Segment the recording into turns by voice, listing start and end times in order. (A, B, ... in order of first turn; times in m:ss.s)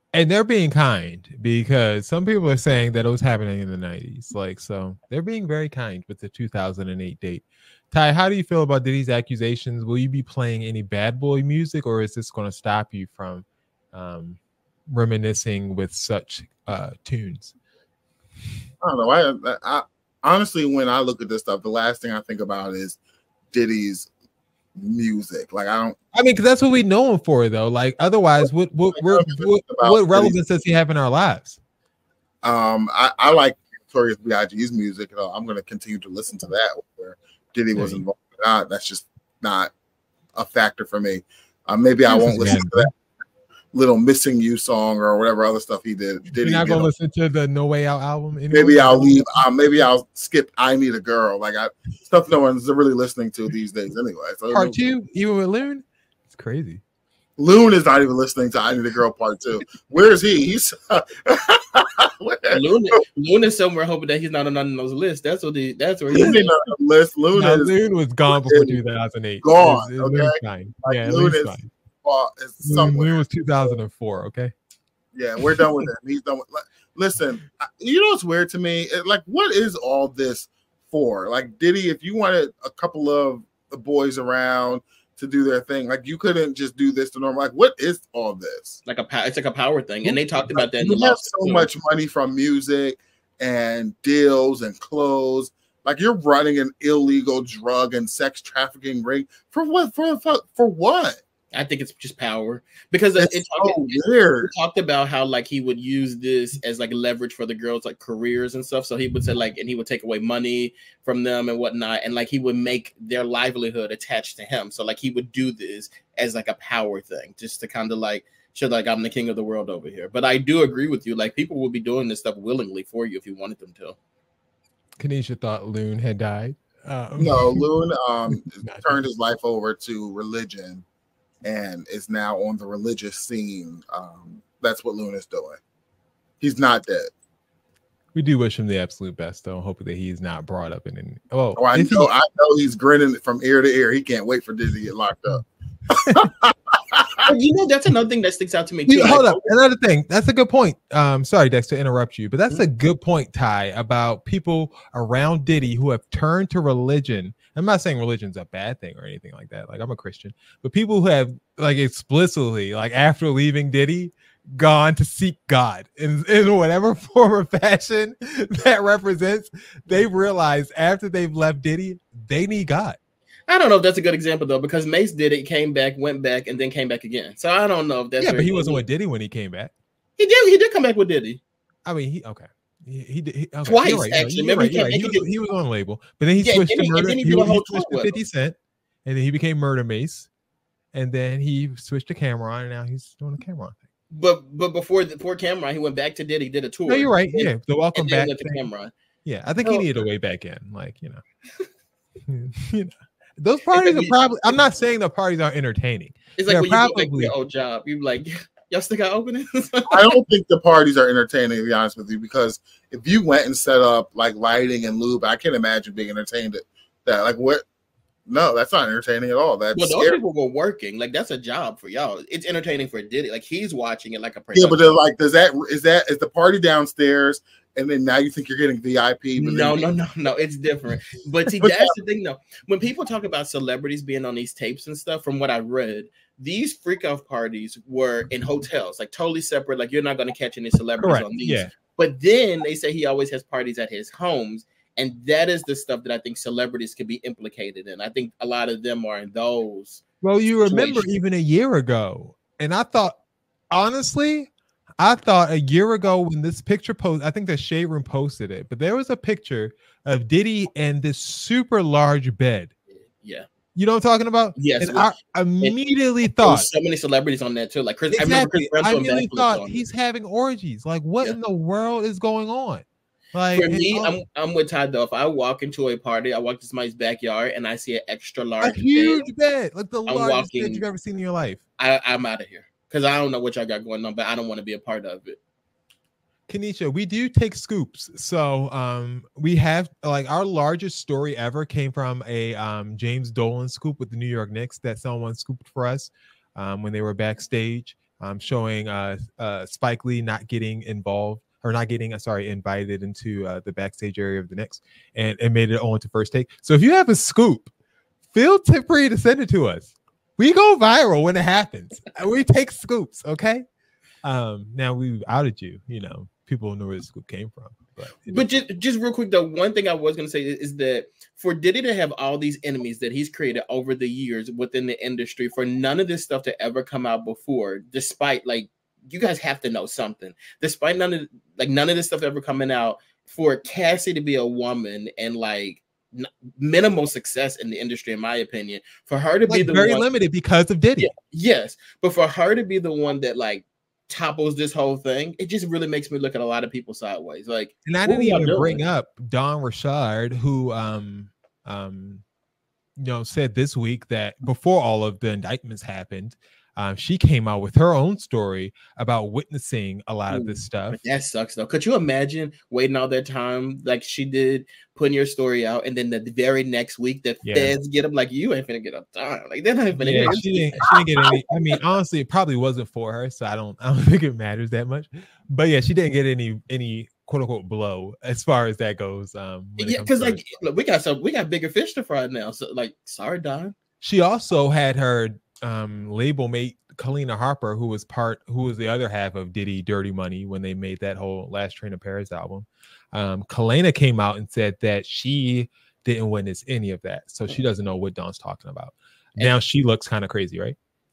0:00.1-0:14.4 A
0:14.9-0:17.5 A
0:18.8-0:23.0 B
0:23.5-0:24.1 B
0:24.8-0:26.0 B
0:26.1-0:31.6 A
0:28.4-0:30.4 B
0:32.4-0:39.7 B
0:37.7-0:38.0 A
0:40.4-0:42.9 B
0:42.1-0:42.9 A
0:43.7-0:46.9 B
0:46.4-0:49.4 A
0:48.5-0:54.8 B
0:54.5-0:56.8 A
0:57.4-1:02.6 B
1:02.5-1:06.5 C
1:06.1-1:07.7 B
1:07.3-1:11.7 A
1:08.3-1:08.8 B
1:09.4-1:13.2 B
1:12.6-1:14.5 A
1:15.1-1:28.8 B
1:28.8-1:31.7 C
1:30.0-1:41.2 B
1:41.5-2:04.0 C
1:43.2-1:44.5 B
2:05.0-2:07.6 A
2:07.2-2:10.8 B
2:08.6-2:09.0 A
2:11.4-2:15.6 B
2:16.4-2:17.1 B
2:18.1-2:22.1 A
2:21.6-2:25.4 B
2:26.1-2:27.3 B
2:27.2-2:29.4 C
2:28.9-2:53.0 A
2:53.5-2:58.8 C
2:58.2-2:59.7 A
3:00.2-3:01.4 C
3:01.8-3:10.3 A
3:03.6-3:05.3 C
3:06.4-3:08.1 C
3:10.9-3:13.8 A
3:14.1-3:18.9 C
3:16.9-3:18.7 A
3:19.2-3:21.2 A
3:19.6-3:20.0 C
3:22.3-3:27.3 A
3:23.7-3:24.2 C
3:26.4-3:30.1 C
3:29.9-3:37.6 B
3:38.2-3:40.2 B
3:39.7-3:44.9 C
3:44.5-3:49.9 B
3:49.4-4:10.0 C
4:01.0-4:01.7 A
4:10.2-4:13.2 A
4:10.6-4:11.0 C
4:13.7-4:22.7 A
4:23.2-4:23.4 C
4:23.7-4:26.7 A
4:24.6-4:25.8 C
4:26.4-4:29.8 C
4:28.1-4:34.1 A
4:33.5-4:39.2 C
4:38.6-4:41.6 A
4:40.1-4:40.8 C
4:41.8-4:45.4 C
4:46.5-5:07.7 A
5:08.3-5:13.6 A
5:14.2-5:18.5 A
5:18.3-5:40.0 C
5:39.5-5:41.1 A
5:41.0-5:48.8 C
5:47.8-5:52.2 A
5:53.0-6:01.0 A
6:00.3-6:11.4 C
6:07.4-6:07.7 A
6:09.9-6:20.4 A
6:19.8-6:23.7 C
6:24.0-6:40.8 A